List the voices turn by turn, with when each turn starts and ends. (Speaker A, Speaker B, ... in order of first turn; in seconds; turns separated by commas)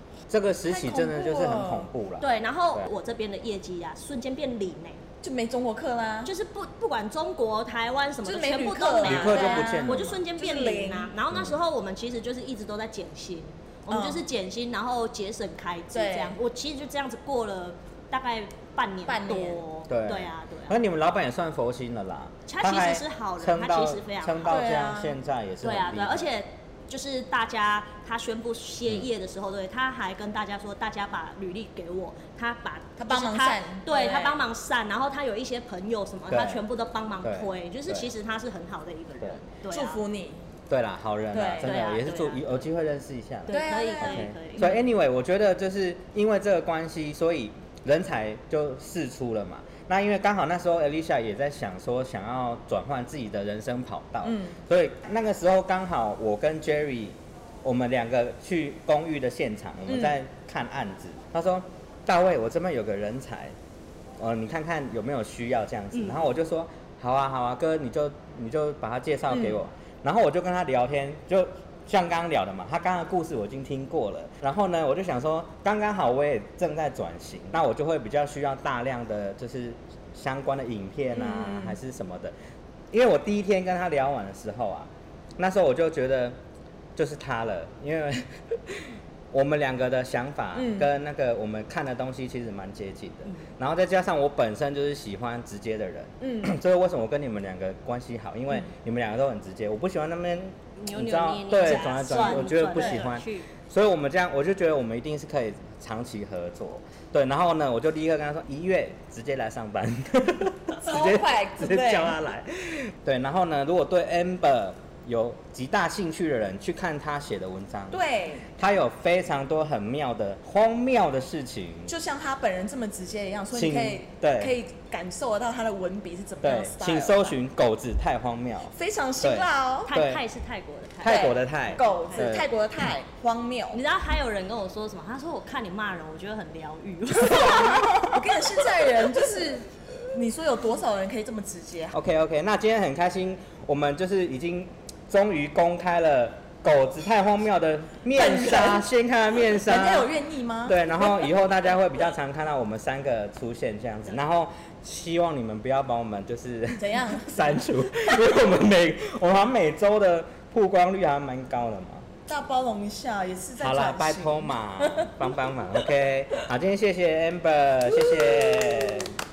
Speaker A: 0.3-2.9, Speaker B: 0.7-1.9, Speaker C: 2.2-5.0, Speaker B: 5.2-6.3, Speaker C: 6.2-20.8, Speaker B: 8.2-11.1, Speaker A: 9.0-10.2, Speaker B: 13.9-14.2, Speaker B: 15.9-16.4, Speaker B: 19.1-19.6, Speaker A: 19.9-26.3, Speaker C: 22.5-24.7, Speaker B: 24.5-25.2, Speaker C: 25.6-40.0, Speaker B: 33.0-34.4, Speaker A: 36.3-36.6, Speaker A: 37.2-38.1, Speaker B: 39.7-40.4, Speaker A: 40.7-43.5, Speaker B: 41.3-41.8, Speaker C: 41.6-42.6, Speaker C: 43.5-44.7, Speaker B: 43.5-44.8, Speaker A: 44.0-63.5, Speaker B: 54.2-54.6, Speaker A: 64.2-82.3, Speaker C: 65.9-66.2, Speaker B: 69.3-69.6, Speaker B: 81.2-81.8, Speaker A: 82.9-86.4, Speaker A: 87.0-118.0, Speaker B: 90.5-90.9, Speaker B: 96.2-96.5, Speaker C: 100.8-103.5, Speaker B: 102.0-103.0, Speaker B: 110.8-112.2, Speaker B: 117.9-118.5, Speaker A: 118.5-121.9, Speaker B: 121.9-127.4, Speaker A: 123.5-124.6, Speaker A: 126.4-130.2, Speaker B: 128.8-129.9, Speaker C: 129.9-131.3, Speaker A: 131.0-132.5, Speaker B: 131.0-133.8, Speaker C: 133.7-138.1, Speaker B: 137.2-141.9, Speaker A: 141.9-150.1, Speaker B: 148.2-148.9, Speaker B: 149.6-150.8, Speaker A: 150.7-162.1, Speaker B: 156.8-157.5, Speaker B: 162.3-165.3, Speaker A: 163.6-169.2, Speaker B: 167.9-169.0